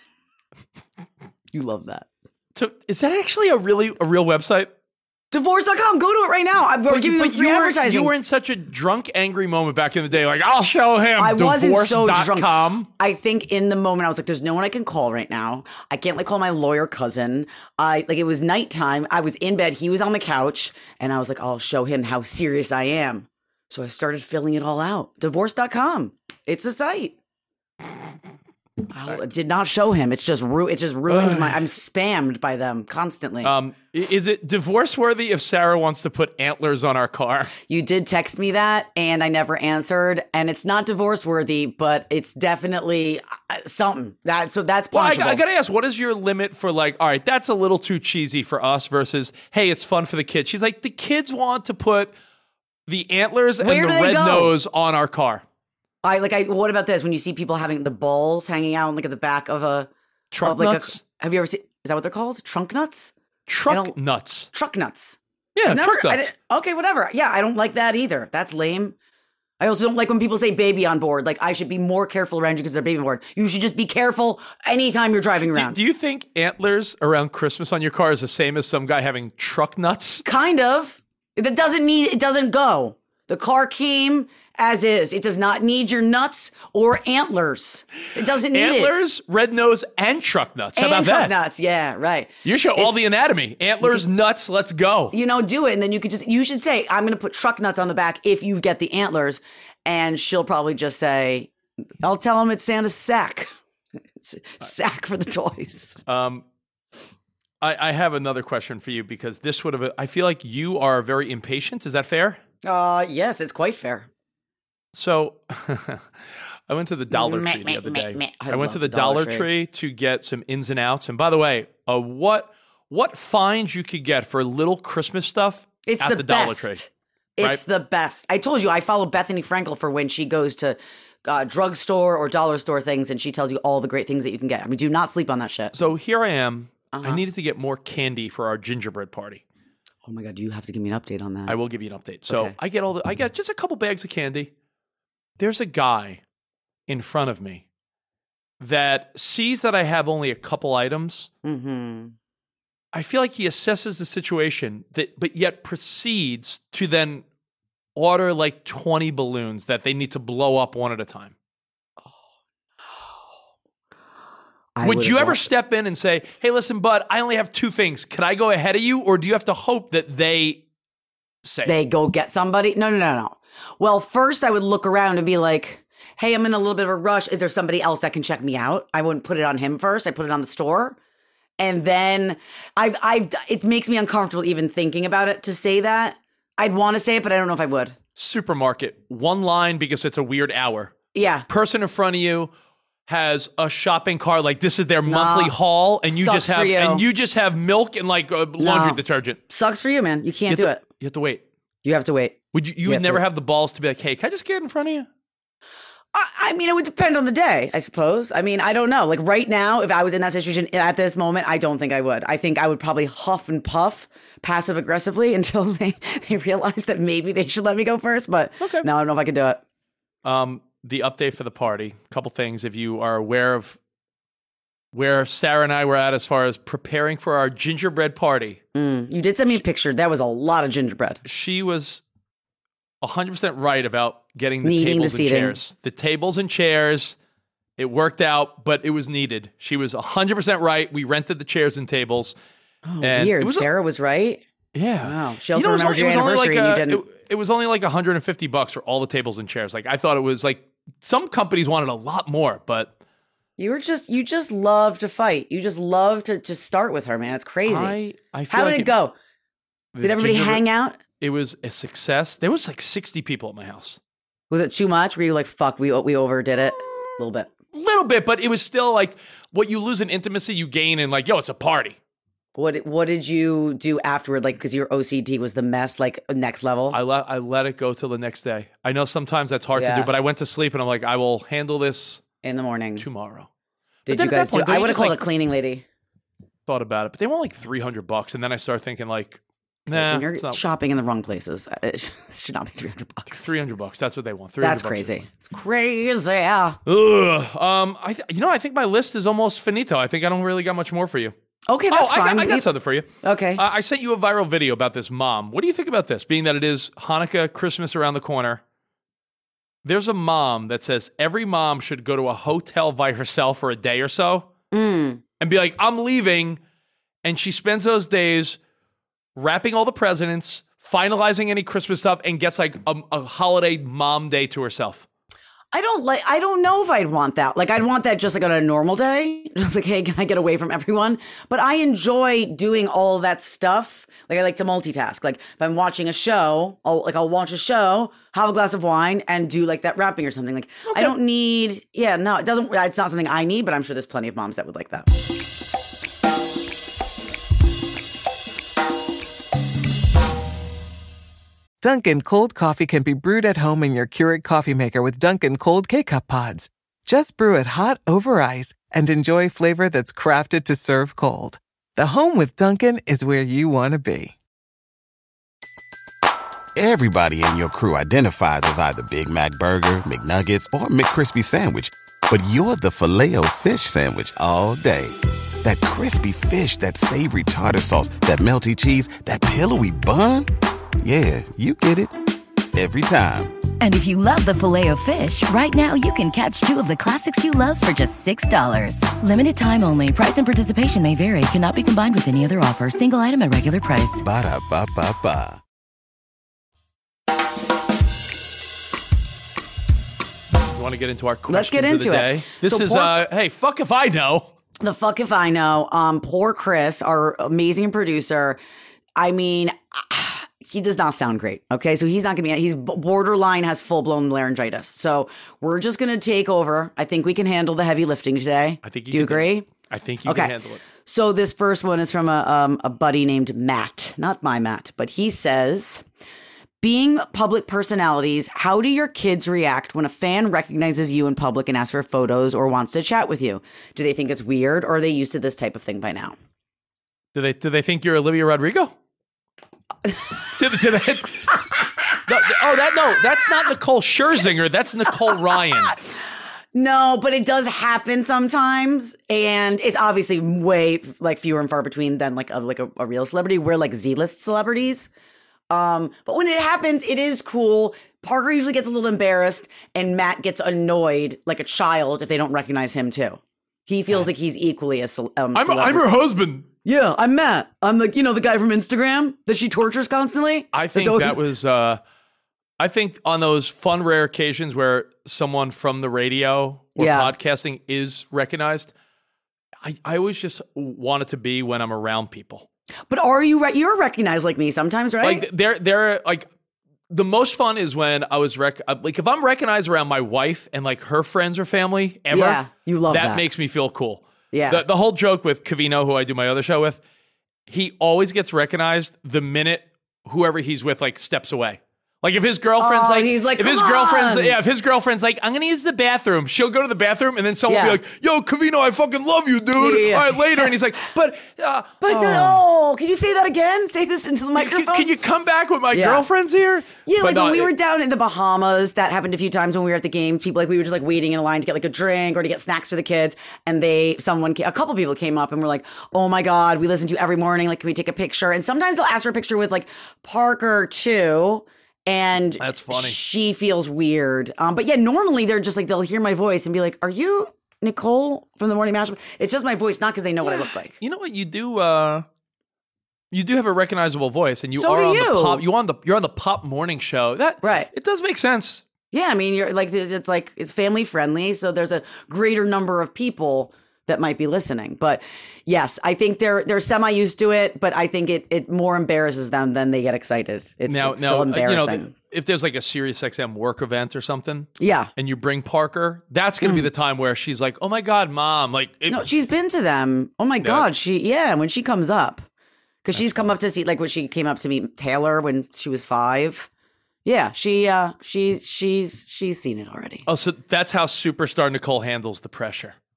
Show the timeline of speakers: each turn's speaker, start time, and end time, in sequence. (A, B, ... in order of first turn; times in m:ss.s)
0:01.5-0:02.1 A
0:02.6-0:04.7 B
0:05.3-0:08.1 A
0:06.9-0:12.9 B
0:11.2-0:27.1 A
0:28.9-0:33.5 A
0:31.1-0:31.6 B
0:33.4-0:37.5 B
0:37.7-0:45.4 A
0:44.9-0:52.1 B
0:52.9-0:55.4 B
0:53.6-0:54.5 A
0:56.0-0:59.9 A
1:00.3-1:01.0 B
1:00.4-1:03.1 A
1:03.5-1:04.5 B
1:03.7-1:03.9 A
1:04.5-1:08.9 A
1:05.6-1:06.3 B
1:09.6-1:15.8 A
1:15.4-1:20.2 B
1:20.2-1:28.9 A
1:28.5-1:31.3 B
1:30.8-1:33.0 A
1:32.4-1:35.1 B
1:35.1-1:41.5 A
1:42.0-1:43.5 A
1:44.2-1:46.0 A
1:46.1-1:46.4 B
1:47.6-1:52.4 B
1:52.6-1:54.1 A
1:54.9-1:56.0 B
1:56.7-2:06.8 B
1:57.1-1:59.5 A
2:05.9-2:15.7 A
2:15.8-2:19.4 B
2:16.9-2:17.2 A
2:20.0-2:21.6 A
2:21.5-2:24.5 B
2:22.3-2:22.5 A
2:25.4-2:26.2 B
2:26.9-2:27.6 B
2:28.6-2:31.3 B
2:31.4-2:32.1 A
2:32.9-2:37.2 B
2:38.0-2:41.3 B
2:44.8-2:45.4 A
2:44.8-2:50.6 B
2:51.4-2:51.8 B
2:51.6-3:01.0 A
3:01.6-3:08.0 A
3:08.2-3:10.9 B
3:11.1-3:11.5 A
3:11.5-3:12.5 B
3:13.1-3:19.4 B
3:15.1-3:15.5 A
3:16.1-3:17.0 A
3:18.6-3:20.8 A
3:20.5-3:21.4 B
3:21.8-3:23.2 A
3:22.5-3:25.1 B
3:26.1-3:39.6 A
3:38.6-3:38.9 B
3:40.2-3:43.8 B
3:44.9-3:48.6 B
3:48.7-3:51.2 A
3:51.2-3:52.0 B
3:53.0-3:57.2 B
3:54.6-3:55.6 A
3:57.8-4:02.4 B
4:02.9-4:04.4 A
4:03.0-4:03.7 B
4:04.7-4:12.9 B
4:05.0-4:07.0 A
4:13.6-4:17.9 A
4:17.6-4:18.9 B
4:18.5-4:19.1 A
4:19.9-4:20.6 B
4:20.0-4:21.0 A
4:21.2-4:24.0 B
4:24.5-4:27.5 A
4:27.7-4:32.0 B
4:32.6-4:37.0 A
4:36.9-4:42.2 B
4:39.8-4:40.1 A
4:42.4-4:43.1 A
4:43.0-4:43.5 B
4:44.1-4:45.8 A
4:44.1-4:45.2 B
4:46.7-4:50.6 B
4:49.9-4:53.5 A
4:53.4-4:55.2 B
4:54.6-4:56.8 A
4:56.9-5:01.3 B
5:01.7-5:02.6 A
5:01.9-5:08.6 B
5:03.2-5:03.6 A
5:09.8-5:14.5 B
5:14.7-5:15.2 A
5:15.4-5:16.6 B
5:17.2-5:18.6 B
5:19.4-5:25.1 B
5:25.7-5:45.1 A
5:40.9-5:41.1 B
5:51.8-6:04.4 C
6:06.7-6:20.5 D
6:21.0-6:22.1 D
6:22.7-6:23.6 D
6:23.8-6:34.2 E
6:34.2-6:35.6 D
6:40.7-6:44.5 B
6:41.5-6:43.1 A
6:44.8-6:48.6 A
6:49.2-6:59.7 A
6:58.8-7:00.8 B
7:00.2-7:06.0 A
7:06.8-7:16.4 A
7:17.4-7:18.9 B
7:20.6-7:21.6 B
7:22.2-7:25.9 B
7:26.7-7:35.1 A
7:35.7-7:46.1 A
7:45.6-7:46.7 B
7:46.8-7:51.4 A
7:50.7-7:52.0 B
7:52.8-7:58.9 B
7:57.0-7:57.3 A
7:59.8-8:02.6 B
8:03.1-8:05.4 A
8:05.2-8:06.5 B
8:07.1-8:17.0 B
8:12.3-8:13.4 A
8:14.5-8:14.8 A
8:17.7-8:32.6 B
8:22.8-8:24.6 A
8:27.7-8:28.0 A
8:29.8-8:30.7 A
8:32.0-8:35.1 A
8:34.6-8:37.7 B
8:35.9-8:36.2 A
8:37.0-9:00.9 A
8:52.6-8:53.2 B
9:00.4-9:02.2 B
9:03.3-9:08.8 B
9:04.8-9:05.6 A
9:07.6-9:07.9 A
9:09.1-9:22.1 A
9:20.9-9:29.2 B
9:24.8-9:25.1 A
9:29.1-9:32.4 A
9:30.6-9:30.9 B
9:33.0-9:36.7 A
9:33.1-9:33.5 B
9:37.2-9:40.2 A
9:40.2-9:43.0 B